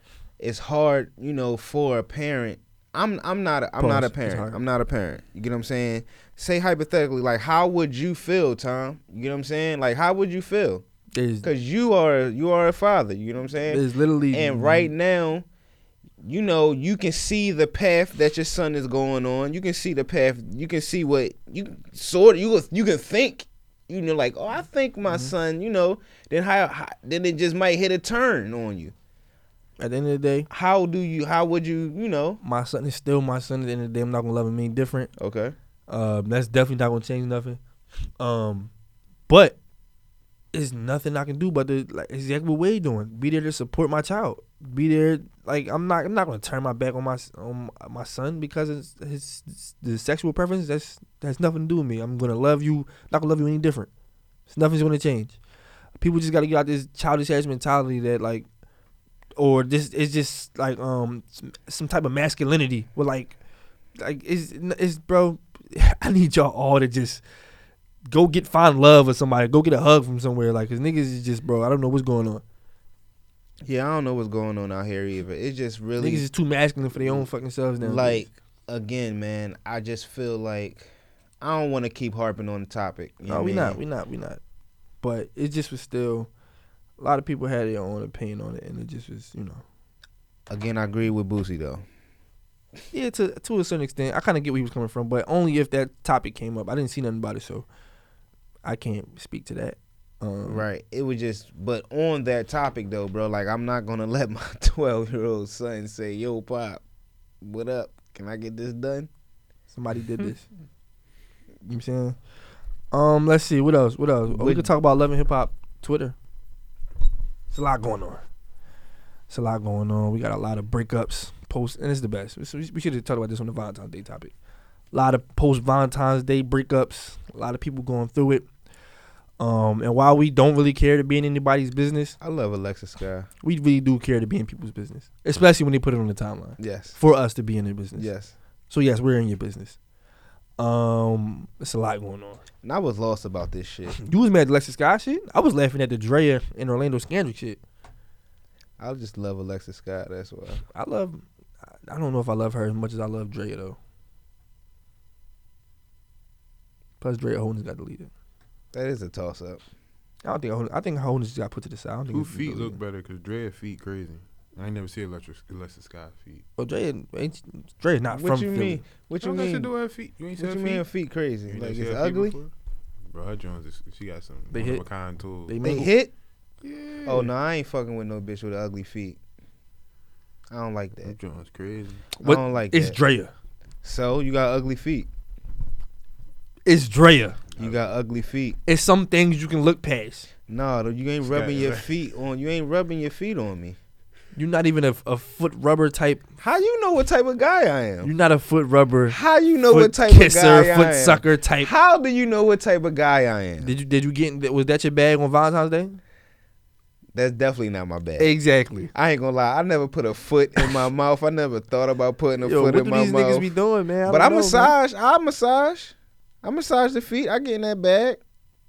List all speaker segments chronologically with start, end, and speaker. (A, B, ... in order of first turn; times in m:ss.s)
0:00.4-0:10.8 A
0:03.8-0:04.6 B
0:11.1-0:11.5 B
0:11.4-0:15.4 A
0:13.7-0:14.9 B
0:16.2-0:28.9 A
0:29.8-0:30.5 B
0:30.5-0:32.4 A
0:32.4-0:35.1 B
0:35.2-0:35.5 A
0:35.9-0:37.6 B
0:38.2-0:38.7 B
0:39.3-0:39.6 B
0:40.5-0:53.9 B
0:54.5-0:55.4 B
0:56.0-0:58.4 B
0:59.4-1:03.4 B
1:04.0-1:07.2 B
1:08.0-1:12.4 B
1:13.6-1:16.2 A
1:16.0-1:18.2 B
1:17.0-1:17.3 A
1:17.8-1:20.9 A
1:21.4-1:23.8 A
1:23.3-1:24.4 B
1:25.0-1:26.3 B
1:27.0-1:29.6 B
1:30.5-1:31.8 A
1:32.9-1:37.6 B
1:38.6-1:40.6 B
1:40.5-1:46.8 A
1:47.4-1:49.1 A
1:49.7-1:50.4 B
1:51.6-1:52.2 B
1:52.9-1:56.1 B
1:54.3-1:54.7 A
1:57.5-1:58.2 B
1:59.3-2:04.3 B
2:04.9-2:08.4 B
2:09.4-2:12.2 B
2:12.2-2:13.3 A
2:13.4-2:18.1 B
2:16.6-2:17.0 A
2:18.0-2:18.3 A
2:18.7-2:19.8 B
2:20.6-2:22.4 B
2:22.6-2:24.0 A
2:24.0-2:27.6 B
2:28.8-2:30.6 A
2:30.7-2:31.2 B
2:31.9-2:33.8 B
2:37.0-2:38.1 B
2:38.7-2:39.6 A
2:40.2-2:42.8 B
2:42.1-2:46.4 C
2:46.6-2:48.8 B
2:48.1-2:49.8 A
2:49.2-2:50.9 C
2:50.4-2:52.4 A
2:51.5-2:52.5 C
2:53.1-2:55.6 C
2:54.5-2:54.9 B
2:55.4-2:55.9 B
2:55.6-2:56.1 A
2:56.6-2:57.3 C
2:57.0-2:59.2 A
3:00.5-3:01.1 A
3:01.0-3:02.1 C
3:02.2-3:03.3 B
3:02.2-3:03.0 A
3:03.8-3:05.1 A
3:06.6-3:07.4 B
3:07.6-3:08.6 A
3:08.6-3:10.3 B
3:10.5-3:13.8 A
3:11.3-3:11.8 C
3:11.4-3:11.7 B
3:14.3-3:16.2 B
3:16.4-3:18.1 A
3:18.0-3:19.2 B
3:19.1-3:23.7 A
3:19.7-3:21.7 B
3:23.6-3:26.0 B
3:27.1-3:28.3 A
3:28.2-3:28.9 B
3:28.9-3:33.5 A
3:32.4-3:34.7 B
3:34.1-3:38.2 A